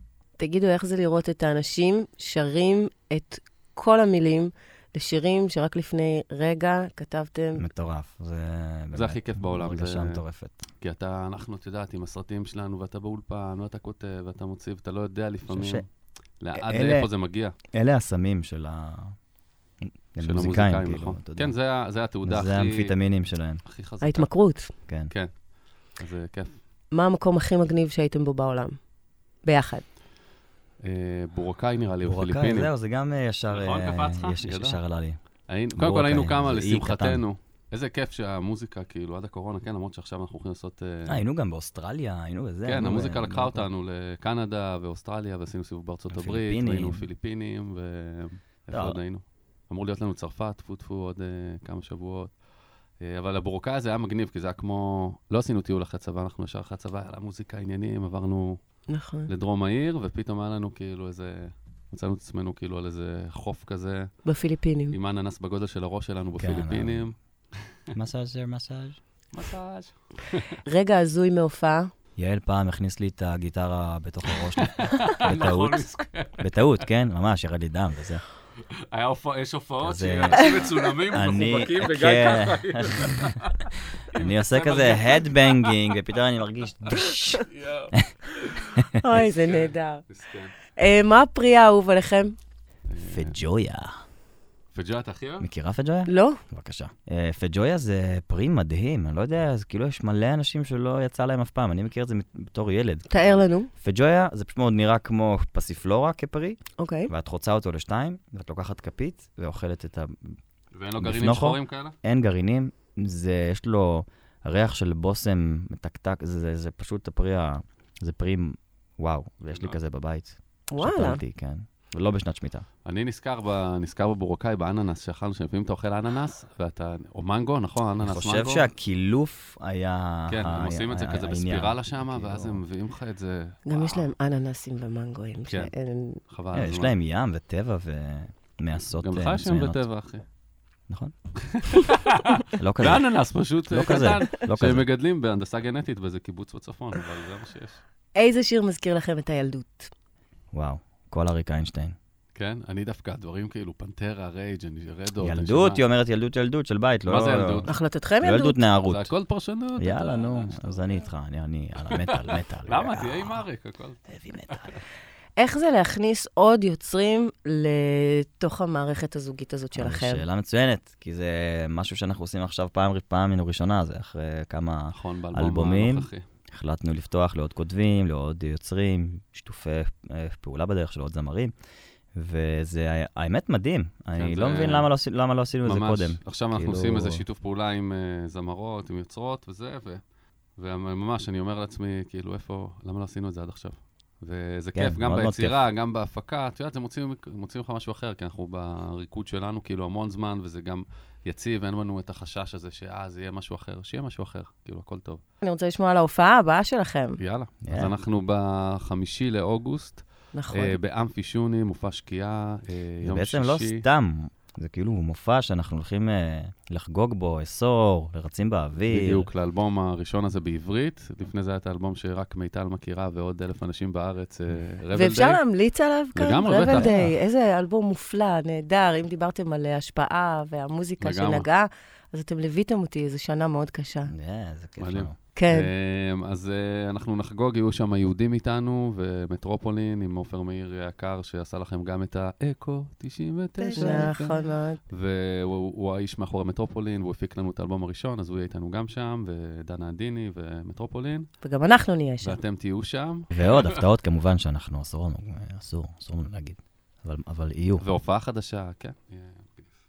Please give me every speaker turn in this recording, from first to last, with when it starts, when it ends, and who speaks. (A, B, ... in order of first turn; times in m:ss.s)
0:00.4-0:07.7 A
0:07.6-0:10.6 B
0:08.9-0:10.2 C
0:10.8-0:15.8 C
0:15.5-0:15.8 B
0:16.4-0:17.5 C
0:16.5-0:17.1 B
0:17.7-0:19.1 B
0:19.9-0:21.5 B
0:20.2-0:23.0 C
0:22.2-0:23.6 B
0:23.6-0:24.3 C
0:24.0-0:24.7 A
0:24.9-0:25.1 B
0:26.0-0:26.6 C
0:26.9-0:28.8 A
0:29.4-0:29.9 A
0:30.8-0:32.7 C
0:32.0-0:35.2 B
0:33.5-0:34.8 C
0:35.5-0:41.2 C
0:35.7-0:37.2 B
0:41.0-0:43.7 B
0:42.6-0:52.3 C
0:46.1-0:47.0 B
0:48.7-0:49.0 B
0:53.0-0:58.6 C
0:58.9-0:59.3 A
0:59.3-1:04.1 C
1:04.2-1:05.0 A
1:04.9-1:07.1 C
1:06.4-1:07.1 B
1:07.9-1:09.0 B
1:09.3-1:10.6 C
1:10.6-1:11.9 A
1:12.2-1:18.2 B
1:14.3-1:16.4 C
1:18.9-1:25.8 C
1:19.8-1:23.3 B
1:24.1-1:28.1 B
1:27.4-1:30.6 C
1:29.0-1:30.0 A
1:30.7-1:32.4 A
1:32.9-1:33.4 C
1:33.1-1:34.0 B
1:34.7-1:35.5 C
1:35.4-1:50.4 B
1:36.0-1:36.4 A
1:43.1-1:43.7 A
1:46.8-1:47.1 A
1:50.7-1:52.0 C
1:51.0-2:02.6 B
1:59.5-1:59.8 C
2:00.7-2:01.2 A
2:02.8-2:08.7 C
2:08.0-2:12.6 B
2:10.3-2:14.1 C
2:13.7-2:16.2 A
2:15.5-2:15.7 C
2:16.3-2:16.9 C
2:16.5-2:19.8 B
2:18.9-2:20.2 C
2:21.5-2:27.8 C
2:22.6-2:23.1 B
2:23.7-2:24.8 B
2:28.1-2:29.9 A
2:30.5-2:31.9 B
2:32.3-2:35.8 C
2:35.2-2:39.1 B
2:37.0-2:37.7 C
2:37.7-2:38.6 A
2:38.9-2:41.0 C
2:39.8-2:43.4 B
2:41.9-2:44.8 C
2:44.1-2:44.7 B
2:45.4-2:50.2 A
2:49.7-3:01.5 B
2:54.9-2:56.2 C
3:02.1-3:07.2 B
3:04.1-3:04.9 C
3:05.6-3:10.0 C
3:10.6-3:25.2 C
3:14.7-3:15.6 B
3:25.4-3:27.2 A
3:27.2-3:33.8 C
3:27.6-3:28.0 B
3:30.3-3:30.8 A
3:33.0-3:39.3 B
3:38.9-3:45.4 C
3:44.9-3:54.1 A
3:46.1-3:47.0 C
3:46.6-3:47.2 B
3:51.0-3:51.5 C
3:54.0-3:55.2 B
3:54.8-4:11.3 C
3:55.3-3:55.7 A
4:03.6-4:04.8 A
4:11.4-4:12.4 A
4:12.2-4:13.7 C
4:13.3-4:17.8 B
4:17.8-4:19.7 C